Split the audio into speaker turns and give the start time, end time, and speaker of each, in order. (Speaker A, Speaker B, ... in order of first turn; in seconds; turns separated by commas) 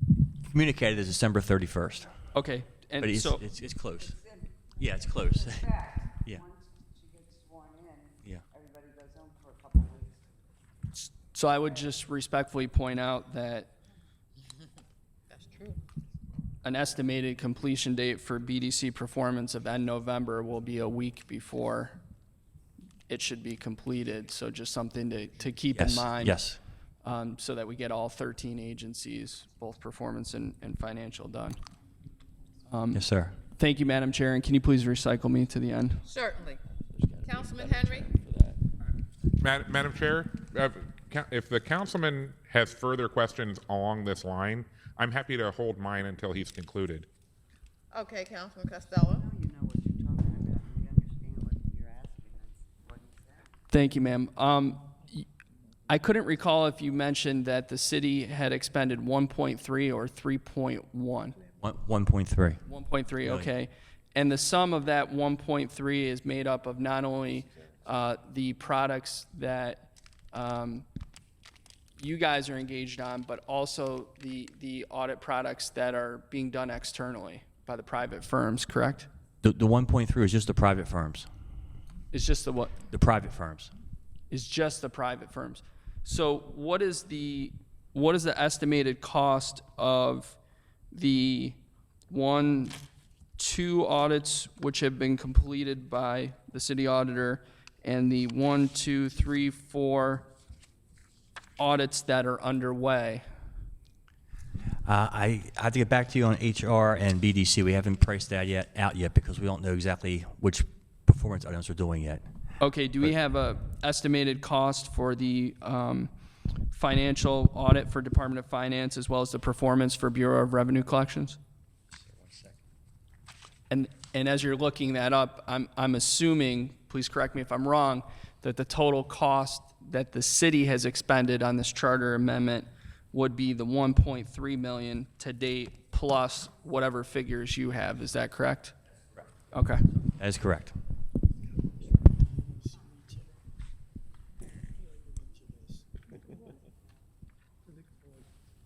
Speaker A: 0.4-2.1, Speaker B: 2.3-3.5, Speaker A: 3.0-4.2, Speaker A: 4.8-6.5, Speaker C: 6.5-10.1, Speaker B: 11.0-13.7, Speaker D: 15.3-15.8, Speaker B: 16.6-22.0, Speaker B: 23.1-26.4, Speaker A: 25.8-26.6, Speaker B: 27.0-31.6, Speaker B: 32.7-33.0, Speaker A: 32.9-33.4, Speaker B: 33.6-36.0, Speaker D: 36.0-36.6, Speaker A: 36.8-38.6, Speaker D: 37.2-38.1, Speaker E: 39.4-47.1, Speaker D: 47.9-49.3, Speaker C: 49.4-52.5, Speaker B: 53.7-55.3, Speaker B: 55.9-61.4, Speaker A: 61.6-62.6, Speaker B: 62.7-70.8, Speaker B: 72.0-79.1, Speaker A: 79.4-81.3, Speaker B: 82.1-82.8, Speaker A: 82.9-83.7, Speaker B: 84.3-90.4, Speaker B: 90.9-91.6, Speaker B: 92.1-92.8, Speaker B: 93.4-100.3, Speaker B: 101.6-103.2, Speaker A: 104.9-112.2, Speaker B: 112.6-116.1, Speaker B: 116.7-121.4, Speaker A: 122.0-122.6, Speaker B: 123.7-138.8, Speaker B: 139.5-139.8, Speaker A: 140.2-140.8